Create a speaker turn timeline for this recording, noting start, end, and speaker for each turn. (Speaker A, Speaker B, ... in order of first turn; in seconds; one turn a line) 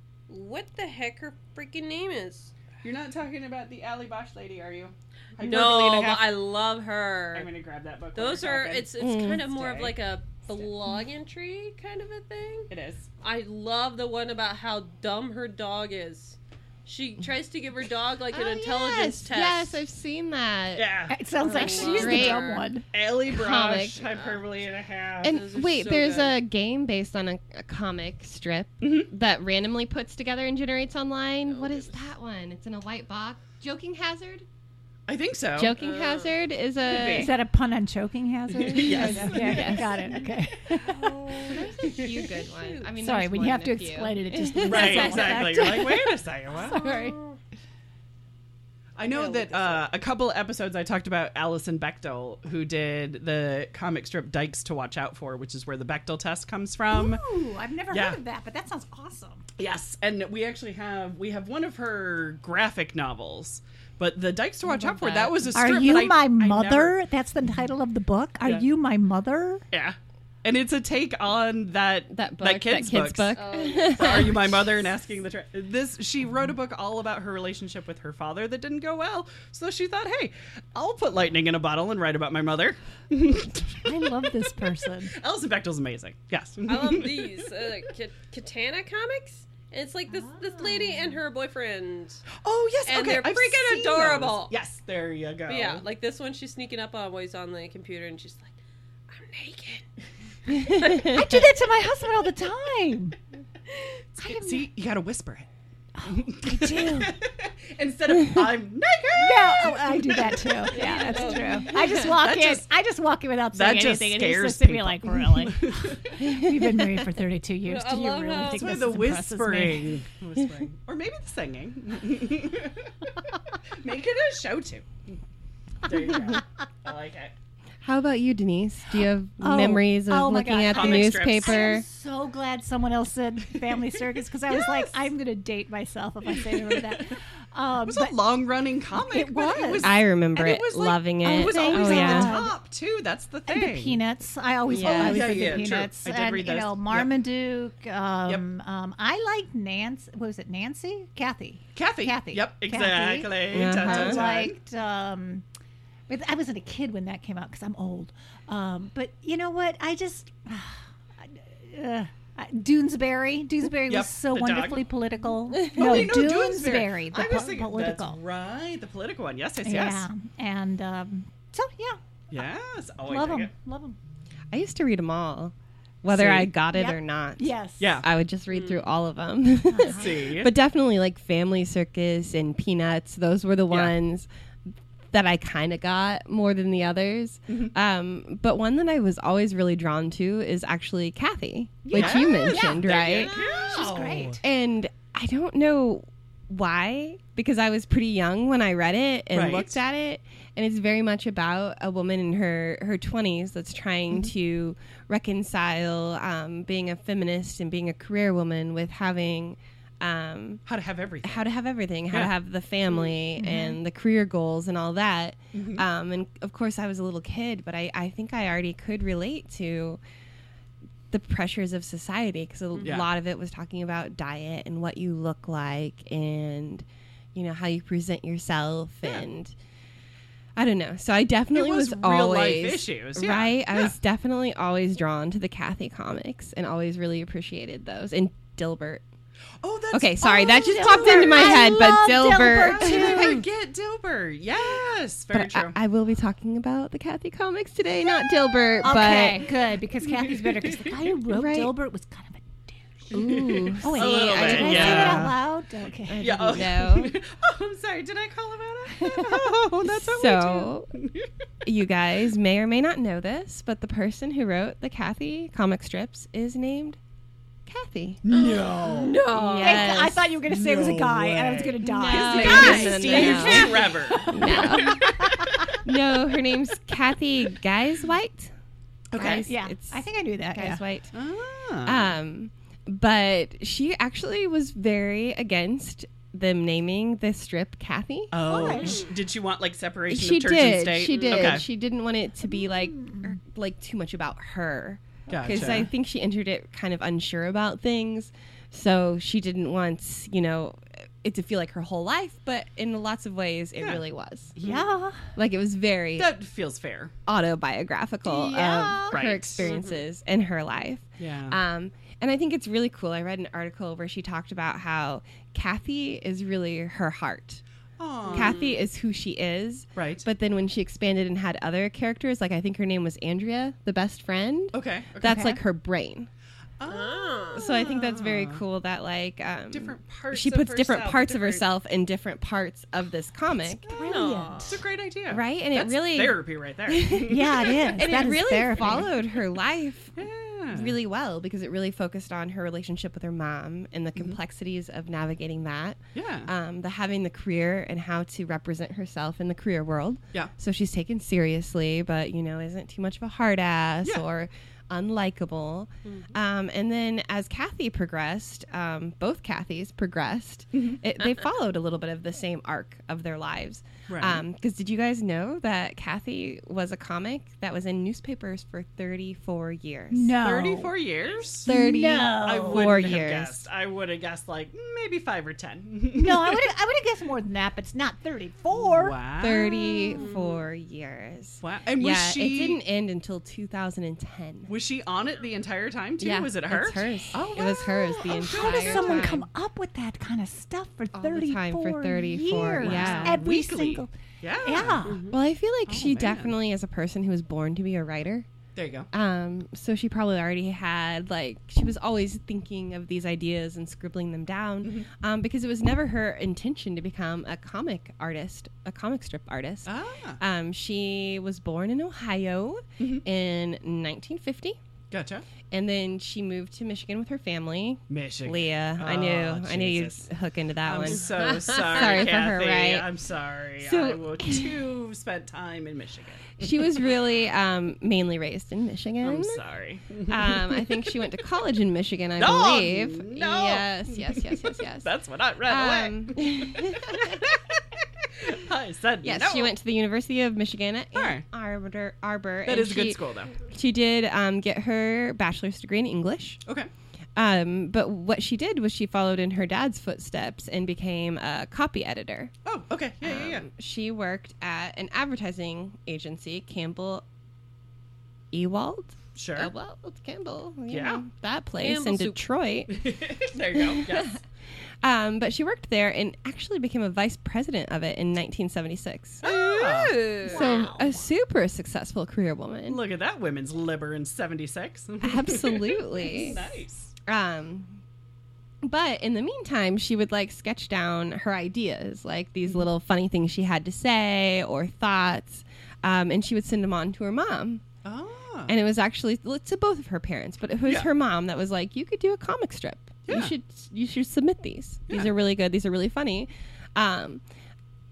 Speaker A: 0.3-2.5
Speaker B: 2.8-6.3
Speaker A: 5.4-7.5
Speaker B: 7.3-8.9
Speaker A: 8.1-19.8
Speaker C: 9.0-9.4
Speaker B: 9.4-9.9
Speaker B: 12.7-13.1
Speaker C: 18.3-20.9
Speaker B: 20.7-22.2
Speaker D: 21.1-22.8
Speaker A: 21.4-22.7
Speaker C: 21.4-22.5
Speaker B: 22.9-25.4
Speaker C: 23.3-24.1
Speaker A: 24.1-24.4
Speaker C: 25.2-34.4
Speaker A: 25.2-26.4
Speaker B: 28.8-29.1
Speaker A: 31.5-32.0
Speaker B: 35.1-35.7
Speaker C: 35.5-37.3
Speaker A: 35.8-36.4
Speaker B: 36.8-37.3
Speaker D: 37.1-41.1
Speaker B: 38.6-39.8
Speaker C: 38.7-40.0
Speaker A: 40.9-42.8
Speaker C: 40.9-45.6
Speaker B: 41.8-42.1
Speaker D: 43.0-47.2
Speaker B: 44.6-46.8
Speaker A: 46.6-47.4
Speaker B: 49.0-57.2
Speaker A: 49.0-49.9
Speaker D: 56.9-59.4
Speaker B: 57.9-58.2
Speaker B: 59.6-66.9
Speaker C: 64.7-65.5
Speaker D: 65.5-69.6
Speaker B: 69.7-83.9
Speaker C: 72.1-74.7
Speaker A: 73.3-74.3
Speaker D: 83.8-85.1
Speaker B: 85.0-87.5
Speaker A: 86.7-92.2
Speaker D: 90.1-91.1
Speaker B: 92.4-95.8
Speaker A: 92.8-94.5
Speaker A: 95.5-98.5
Speaker A: 99.1-99.9
Speaker C: 100.5-101.3
Speaker A: 100.6-101.2
Speaker D: 101.0-103.2
Speaker A: 103.7-104.0
Speaker B: 104.2-105.5
Speaker D: 104.2-104.6
Speaker D: 106.0-107.1
Speaker B: 106.0-112.7
Speaker D: 109.2-119.9
Speaker A: 110.7-111.7
Speaker B: 113.5-116.2
Speaker C: 116.2-116.5
Speaker A: 117.6-119.0
Speaker B: 118.4-123.1
Speaker B: 123.8-125.2
Speaker B: 125.8-127.3
Speaker C: 127.8-131.8
Speaker D: 129.4-138.2
Speaker B: 130.6-131.8
Speaker B: 134.5-135.0
Speaker B: 136.5-136.8
Speaker B: 137.9-144.0
Speaker D: 138.9-139.9
Speaker C: 139.8-142.3
Speaker D: 141.2-142.6
Speaker D: 143.5-155.4
Speaker C: 144.7-145.5
Speaker B: 144.8-147.1
Speaker B: 151.7-154.6
Speaker C: 153.5-154.2
Speaker D: 156.1-168.2
Speaker B: 163.9-164.8
Speaker C: 165.5-166.2
Speaker B: 165.7-170.1
Speaker D: 169.6-172.0
Speaker B: 172.3-173.5
Speaker D: 173.1-174.0
Speaker C: 174.5-184.3
Speaker B: 176.1-176.5
Speaker D: 176.7-177.9
Speaker B: 177.8-178.1
Speaker A: 178.5-178.8
Speaker D: 179.7-180.1
Speaker B: 179.9-180.5
Speaker B: 183.7-183.9
Speaker C: 185.1-193.3
Speaker B: 191.8-194.4
Speaker D: 191.9-194.4
Speaker C: 194.4-210.6
Speaker B: 199.3-199.8
Speaker B: 210.7-211.4
Speaker C: 211.2-220.0
Speaker D: 213.4-213.8
Speaker B: 215.5-215.9
Speaker C: 221.1-229.5
Speaker B: 222.8-223.1
Speaker C: 230.6-239.0
Speaker B: 231.5-233.9
Speaker B: 239.6-241.8
Speaker C: 239.9-243.4
Speaker D: 240.2-243.4
Speaker B: 242.5-245.8
Speaker C: 245.3-249.5
Speaker D: 248.8-253.2
Speaker B: 250.2-250.8
Speaker C: 251.3-251.7
Speaker C: 253.1-255.4
Speaker B: 253.1-255.4
Speaker D: 253.8-256.4
Speaker C: 256.0-257.1
Speaker B: 256.2-261.3
Speaker C: 259.0-260.9
Speaker C: 261.6-267.0
Speaker C: 267.6-268.2
Speaker B: 268.2-269.3
Speaker A: 268.3-270.0
Speaker C: 269.3-270.3
Speaker D: 269.6-275.8
Speaker B: 270.5-275.1
Speaker C: 271.8-275.2
Speaker A: 272.3-273.9
Speaker C: 275.8-278.5
Speaker B: 279.1-279.5
Speaker C: 279.1-281.1
Speaker D: 279.4-280.8
Speaker B: 281.1-282.1
Speaker C: 281.9-288.9
Speaker B: 288.3-291.6
Speaker D: 288.4-289.0
Speaker A: 288.5-289.1
Speaker C: 290.1-304.5
Speaker A: 291.1-291.6
Speaker D: 292.6-293.4
Speaker B: 295.3-295.9
Speaker D: 295.4-295.8
Speaker B: 304.5-304.9
Speaker D: 304.6-305.3
Speaker C: 305.4-306.3
Speaker B: 306.2-307.1
Speaker C: 307.3-317.6
Speaker B: 308.2-309.7
Speaker A: 309.6-310.0
Speaker B: 311.2-311.6
Speaker B: 318.0-318.6
Speaker A: 318.2-318.8
Speaker C: 318.3-326.3
Speaker B: 319.9-320.2
Speaker B: 324.7-325.6
Speaker D: 325.2-325.6
Speaker B: 326.8-328.6
Speaker A: 326.9-327.6
Speaker C: 327.5-333.8
Speaker B: 329.7-331.6
Speaker D: 333.9-334.8
Speaker A: 333.9-334.8
Speaker B: 334.6-338.2
Speaker C: 335.3-370.4
Speaker D: 337.3-339.1
Speaker B: 338.8-339.0
Speaker B: 340.1-340.9
Speaker B: 346.1-346.5
Speaker B: 360.7-361.0
Speaker B: 364.1-364.4
Speaker D: 370.1-370.9
Speaker B: 370.4-371.7
Speaker D: 371.6-373.0
Speaker C: 371.6-373.7
Speaker B: 372.4-376.7
Speaker D: 376.1-379.2
Speaker B: 378.8-380.1
Speaker C: 379.4-384.7
Speaker A: 380.1-380.6
Speaker B: 381.6-382.8
Speaker B: 384.7-389.4
Speaker C: 386.2-389.4
Speaker D: 388.4-395.2
Speaker C: 391.1-393.4
Speaker B: 392.5-395.1
Speaker A: 395.1-395.3
Speaker C: 395.3-398.5
Speaker B: 395.9-396.5
Speaker B: 398.8-399.1
Speaker C: 399.1-414.8
Speaker B: 409.9-410.4
Speaker B: 413.0-413.2
Speaker B: 415.1-415.4
Speaker C: 415.7-423.1
Speaker B: 418.1-420.2
Speaker B: 420.8-427.1
Speaker A: 421.4-422.1
Speaker C: 423.8-424.8
Speaker C: 426.6-429.6
Speaker B: 429.2-431.0
Speaker C: 430.3-435.1
Speaker B: 432.4-439.7
Speaker C: 435.6-437.4
Speaker C: 439.2-446.6
Speaker B: 441.1-441.4
Speaker B: 442.6-443.6
Speaker C: 447.4-452.5
Speaker B: 452.6-453.6
Speaker C: 453.2-457.2
Speaker C: 458.5-463.1
Speaker B: 459.4-459.7
Speaker B: 460.9-461.2
Speaker A: 461.8-462.4
Speaker B: 462.9-464.4
Speaker C: 463.7-464.4
Speaker C: 465.0-469.5
Speaker B: 469.4-470.3
Speaker A: 469.5-470.6
Speaker C: 470.4-473.0
Speaker D: 470.4-471.2
Speaker B: 472.9-477.1
Speaker C: 475.2-476.6
Speaker C: 477.2-478.0
Speaker C: 478.8-487.8
Speaker B: 488.0-488.7
Speaker C: 488.7-497.4
Speaker B: 493.3-493.5